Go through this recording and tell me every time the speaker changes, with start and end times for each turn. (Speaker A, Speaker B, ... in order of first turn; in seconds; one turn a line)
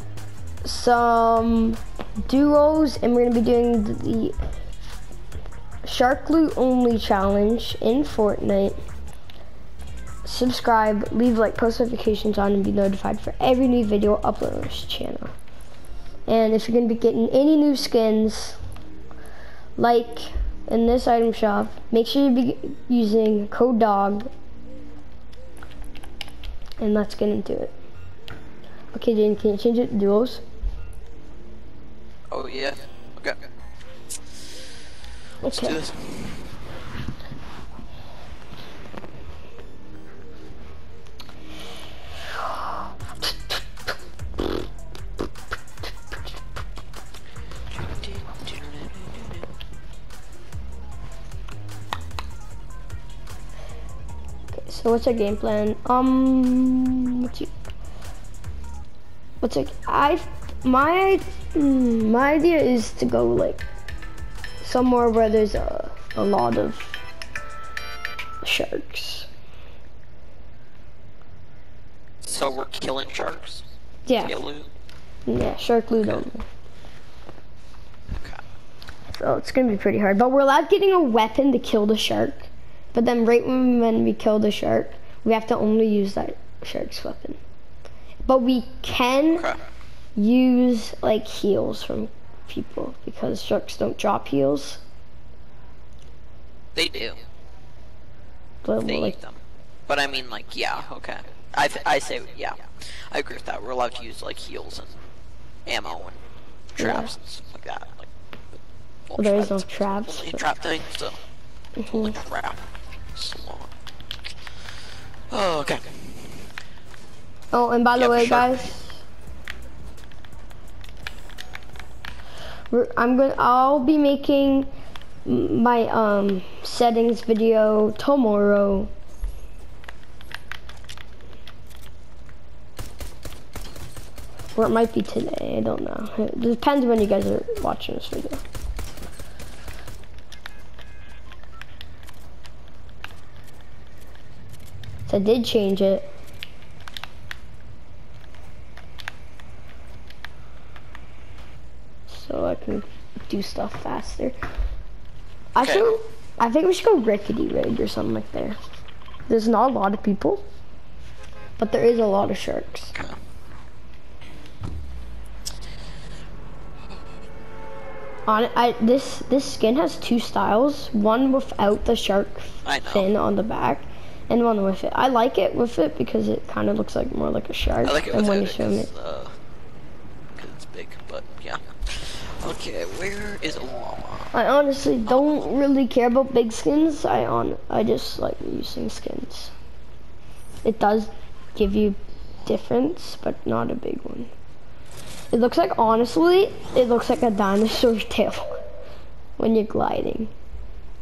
Speaker A: 0.6-4.3
Speaker A: 5.8-8.8
Speaker A: 10.2-15.3
Speaker A: 16.3-18.6
Speaker A: 19.8-24.3
Speaker A: 26.8-27.7
Speaker A: 28.9-30.4
Speaker B: 32.3-33.4
Speaker A: 35.4-35.8
Speaker B: 35.4-36.5
Speaker B: 47.7-49.5
Speaker A: 54.6-57.5
Speaker A: 59.4-63.6
Speaker A: 64.6-67.0
Speaker A: 68.4-69.3
Speaker B: 72.2-73.6
Speaker A: 74.0-74.3
Speaker B: 74.2-74.7
Speaker A: 75.3-76.4
Speaker B: 76.0-76.2
Speaker B: 78.1-78.4
Speaker A: 79.1-87.4
Speaker A: 88.3-89.5
Speaker B: 89.3-89.7
Speaker A: 90.2-94.8
Speaker B: 96.7-97.2
Speaker A: 98.6-99.2
Speaker B: 98.8-105.0
Speaker B: 105.7-106.2
Speaker B: 106.8-108.1
Speaker A: 106.8-107.1
Speaker B: 109.0-111.2
Speaker A: 109.2-110.5
Speaker A: 111.8-112.1
Speaker B: 111.9-113.7
Speaker B: 115.3-116.3
Speaker A: 117.5-119.0
Speaker B: 117.9-118.7
Speaker A: 122.7-124.7
Speaker A: 125.2-128.9
Speaker A: 134.5-138.4
Speaker A: 145.1-146.1
Speaker A: 152.1-154.3
Speaker B: 155.5-155.9
Speaker A: 155.6-158.6
Speaker A: 159.3-160.4
Speaker A: 161.6-162.9
Speaker B: 162.9-163.2
Speaker A: 168.3-178.9
Speaker B: 172.6-173.1
Speaker B: 177.8-179.3
Speaker B: 180.3-184.3
Speaker A: 184.3-189.5
Speaker B: 185.1-185.4
Speaker A: 190.6-194.3
Speaker A: 195.3-198.5
Speaker A: 199.4-200.3